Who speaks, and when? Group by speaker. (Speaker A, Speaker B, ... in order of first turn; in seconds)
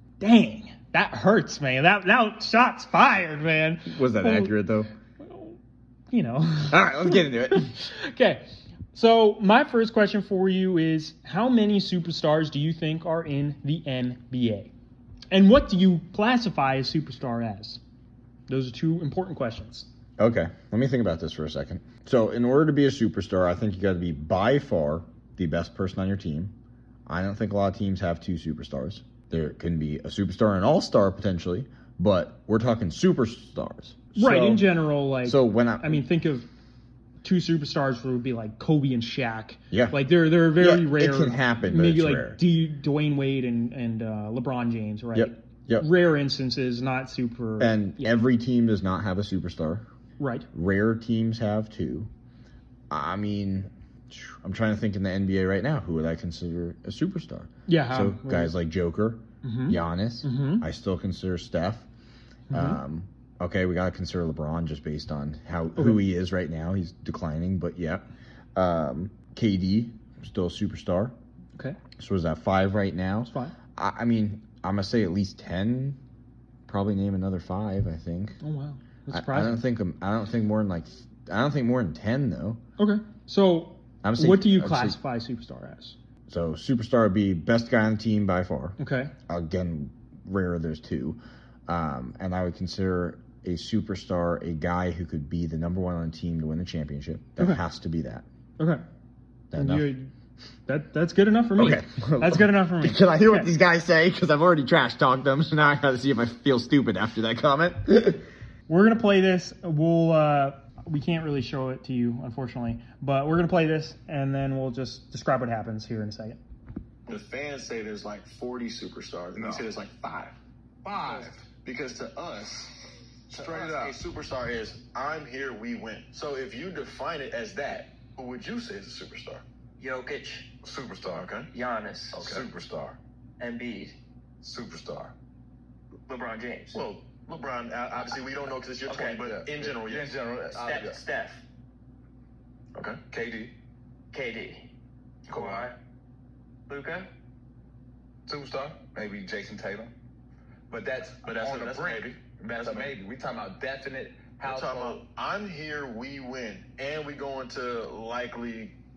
Speaker A: 0.2-4.5, 5.2-5.6, 6.1-14.7, 15.3-17.8, 18.5-19.9, 34.2-36.5, 37.2-48.1, 50.2-50.5, 57.7-58.5, 59.4-60.6, 62.5-62.8, 65.8-66.0, 73.3-73.5, 78.4-79.6, 82.8-86.0, 88.8-89.1, 99.5-100.1, 100.7-103.5, 108.7-116.4
Speaker B: 3.9-4.9, 6.7-7.7, 20.2-26.5, 27.1-34.7, 35.2-36.0, 39.7-40.0, 40.5-42.4, 45.1-45.9, 47.6-49.9, 50.5-52.1, 52.9-61.9, 62.5-68.0, 68.5-71.2, 72.0-76.0, 76.7-78.4, 79.1-82.6, 84.0-85.0, 86.3-88.8, 89.3-98.2, 99.5-99.9, 101.6-108.2
Speaker C: 117.1-120.3, 121.1-122.8, 123.3-129.4, 131.0-131.5, 132.2-132.5, 136.7-140.2, 142.8-143.0, 145.3-145.7, 151.2-153.0, 154.4-158.8
Speaker D: 119.3-119.7, 120.8-121.4, 123.3-124.0, 130.6-131.3, 132.1-133.0, 134.4-135.1, 139.0-141.0, 143.1-143.5, 145.3-145.6, 148.3-149.9, 150.7-155.0
Speaker E: 129.8-130.5, 131.5-132.3, 133.4-134.0, 136.1-136.8, 138.9-139.2, 140.5-141.4, 144.1-144.7, 145.3-145.8, 146.7-147.1